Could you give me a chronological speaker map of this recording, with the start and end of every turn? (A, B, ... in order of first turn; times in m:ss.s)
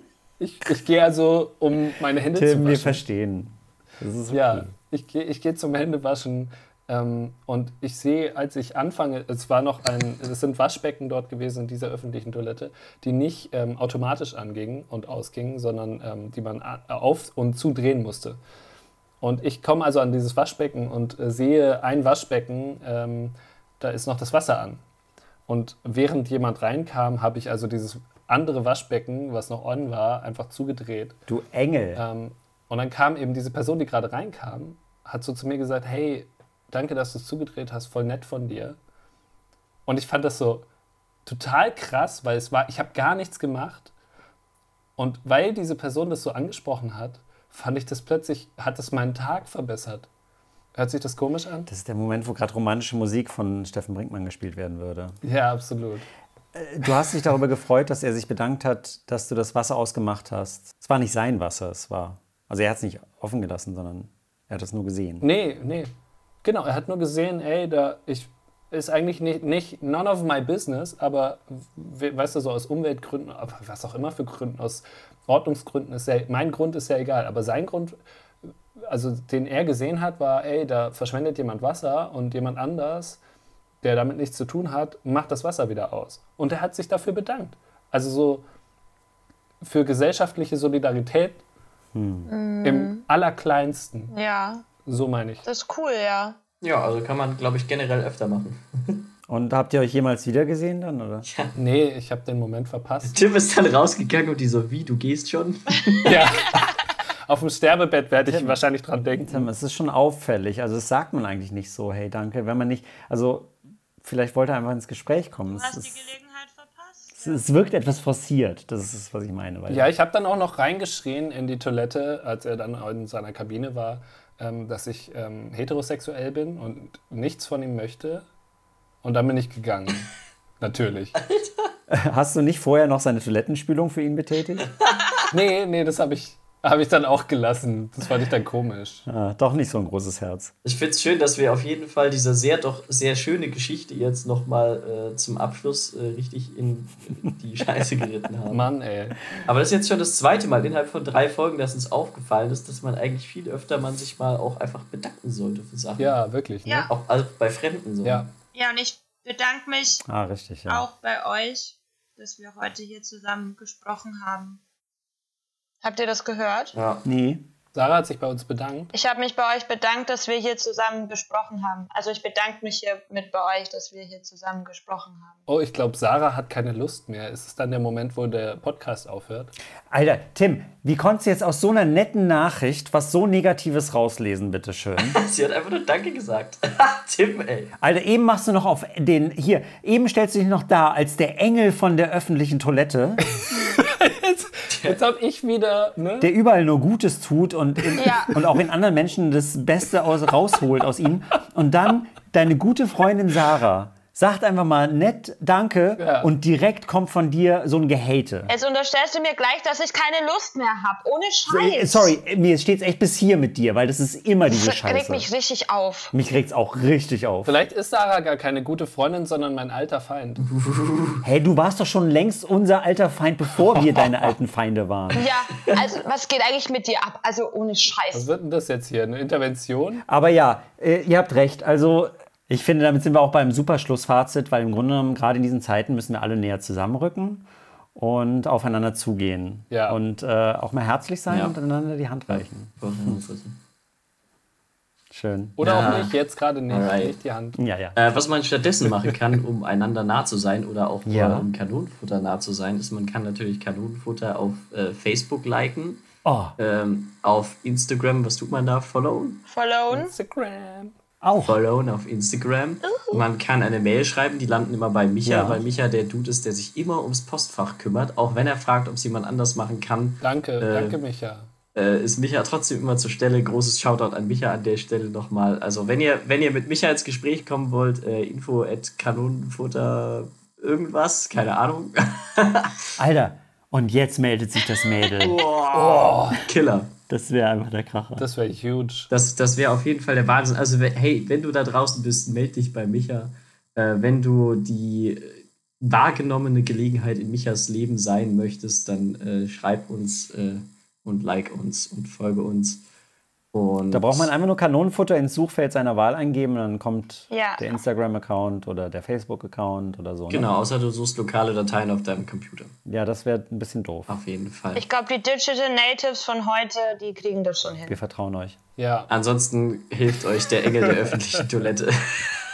0:00.4-0:03.0 A
0:02.3-0:04.7 B
0:04.3-0:18.4 A
0:19.2-0:24.8 A
0:25.5-0:31.2 A
0:31.3-0:32.0 B
0:32.0-0:38.8 A
0:39.9-0:40.7 A
0:41.3-0:43.9 A
0:45.0-0:50.1 A
0:50.8-0:51.7 A
0:51.7-0:55.2 B
0:55.2-0:56.1 A
0:56.5-1:05.3 B
1:05.2-1:05.9 A
1:06.4-1:18.0 A
1:18.8-1:23.2 A
1:23.8-1:28.4 A
1:29.6-1:31.4 A
1:31.9-1:32.3 B
1:32.3-1:33.0 C
1:32.6-1:34.1 A
1:34.1-1:34.7 C
1:34.8-1:35.5 A
1:35.4-1:36.4 C
1:36.6-1:39.1 D
1:39.3-1:41.3 B
1:41.2-1:41.6 D
1:41.6-1:43.2 A
1:43.1-1:46.1 D
1:46.0-1:46.7 A
1:47.3-1:49.5 A
1:48.2-1:48.6 B
1:49.3-1:56.1 B
1:55.5-1:57.4 C
1:57.2-1:59.9 B
1:59.7-2:08.3 A
2:09.0-2:11.2 A
2:11.2-2:11.7 D
2:11.9-2:14.7 B
2:15.3-2:19.0 A
2:19.1-2:20.5 B
2:20.6-2:28.7 D
2:28.5-2:29.2 A
2:29.4-2:36.2 D
2:36.0-2:36.9 A
2:36.9-2:38.3 D
2:38.0-2:38.3 A
2:38.5-2:40.0 C
2:40.1-2:40.9 B
2:40.7-2:44.6 C
2:45.8-2:46.8 C
2:46.7-2:47.0 D
2:47.0-2:47.4 B
2:47.7-2:48.9 A
2:48.9-2:55.4 C
2:55.5-2:59.5 A
2:59.9-3:05.2 B
3:05.0-3:07.7 D
3:07.8-3:13.3 B
3:13.4-3:16.3 A
3:14.7-3:15.0 D
3:16.2-3:28.5 B
3:18.0-3:18.4 C
3:26.0-3:26.3 A
3:28.5-3:32.1 C
3:31.5-3:35.3 B
3:34.5-3:36.1 C
3:36.1-3:37.6 B
3:37.4-3:40.4 A
3:40.5-3:41.2 D
3:41.2-3:45.3 B
3:45.1-3:48.3 C
3:48.1-3:50.0 A
3:50.1-4:03.2 B
3:59.7-4:00.0 A
4:01.3-4:01.6 D
4:02.3-4:03.6 D
4:05.1-4:05.6 B
4:05.6-4:07.6 A
4:05.6-4:06.1 D
4:06.7-4:07.2 D
4:07.6-4:08.0 B
4:08.0-4:16.0 D
4:11.1-4:11.5 B
4:16.2-4:16.6 B
4:16.6-4:19.4 D
4:19.5-4:20.1 C
4:19.9-4:20.9 A
4:21.2-4:21.6 B
4:21.4-4:31.0 D
4:22.9-4:23.2 C
4:25.2-4:25.6 B
4:30.2-4:31.5 A
4:31.8-4:42.9 D
4:43.0-4:45.5 B
4:45.2-4:46.9 D
4:45.7-4:46.4 A
4:47.1-4:48.3 B
4:48.2-4:49.1 A
4:49.1-5:02.8 D
5:03.5-5:04.3 D
5:03.9-5:10.5 B
5:07.3-5:07.7 C
5:10.3-5:12.7 D
5:12.9-5:14.1 B
5:14.1-5:14.8 D
5:14.8-5:18.0 C
5:17.9-5:18.6 B
5:18.8-5:19.1 A
5:19.1-5:22.4 D
5:20.8-5:21.2 A